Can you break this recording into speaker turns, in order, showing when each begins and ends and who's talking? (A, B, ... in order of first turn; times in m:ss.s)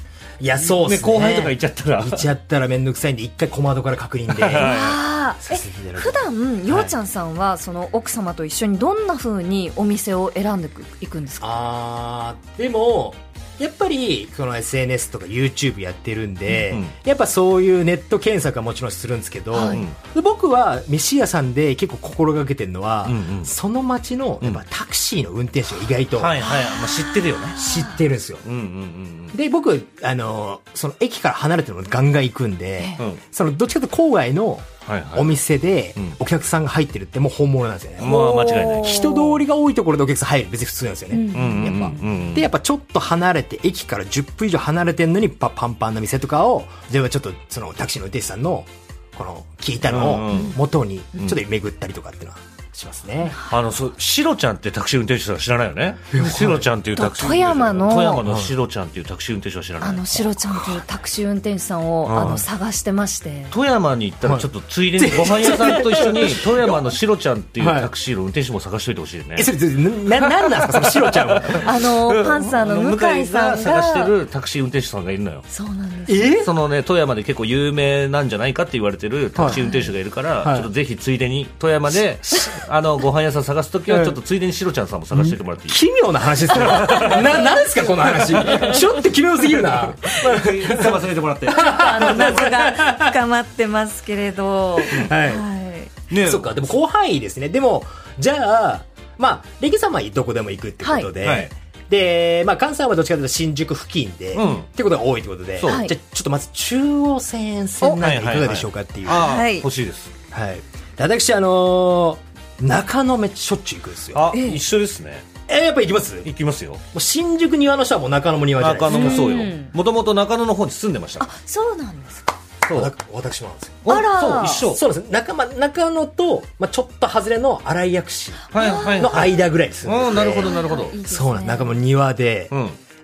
0:00.4-0:04.7 A
0:00.7-0:02.2 B
0:04.3-0:05.0 B
0:04.6-0:11.5 C
0:05.4-0:06.9 A
0:11.4-0:26.4 A
0:16.5-0:16.9 B
0:19.5-0:19.8 C
0:19.7-0:20.0 B
0:23.0-0:23.5 B
0:26.1-0:27.6 B
0:26.4-0:28.0 C
0:27.6-0:28.4 A
0:28.4-0:29.3 B
0:29.3-0:38.2 A
0:34.8-0:35.3 B
0:38.0-0:39.1 B
0:38.0-0:39.4 C
0:38.8-0:53.4 A
0:41.1-0:42.2 C
0:41.3-0:42.5 B
0:49.8-0:50.6 B
0:50.3-0:50.6 C
0:53.2-0:53.5 C
0:53.5-1:00.3 B
0:56.1-0:56.7 A
0:57.0-0:58.2 C
0:58.2-0:58.5 A
0:59.8-1:03.5 C
1:02.0-1:02.4 B
1:02.2-1:02.4 A
1:03.5-1:09.5 B
1:04.2-1:06.9 A
1:07.6-1:07.9 A
1:09.4-1:11.7 A
1:10.2-1:15.4 B
1:11.6-1:14.1 C
1:15.5-1:16.4 C
1:16.1-1:16.5 A
1:16.4-1:25.8 B
1:19.4-1:19.6 A
1:19.5-1:19.9 C
1:20.4-1:20.7 A
1:23.9-1:24.2 A
1:25.1-1:33.1 A
1:26.5-1:27.3 B
1:26.7-1:28.8 C
1:30.1-1:32.4 B
1:31.5-1:35.9 C
1:34.8-1:35.4 A
1:36.1-1:36.5 B
1:36.2-1:49.3 A
1:40.8-1:41.1 C
1:41.2-1:41.5 B
1:44.3-1:44.7 B
1:45.6-1:45.9 B
1:45.6-1:45.9 C
1:48.0-1:50.1 B
1:49.1-1:49.6 C
1:50.3-1:54.2 A
1:54.1-1:55.4 B
1:54.3-1:54.6 C
1:55.5-1:56.3 A
1:56.2-1:56.8 B
1:56.9-1:59.3 A
1:58.6-2:01.3 B
1:58.9-1:59.7 C
2:01.2-2:02.3 C
2:02.6-2:02.9 B
2:02.7-2:03.9 A
2:03.8-2:04.8 B
2:03.8-2:04.6 C
2:04.5-2:12.5 A
2:08.5-2:10.9 B
2:08.5-2:09.3 C
2:10.4-2:11.7 C
2:12.5-2:12.8 B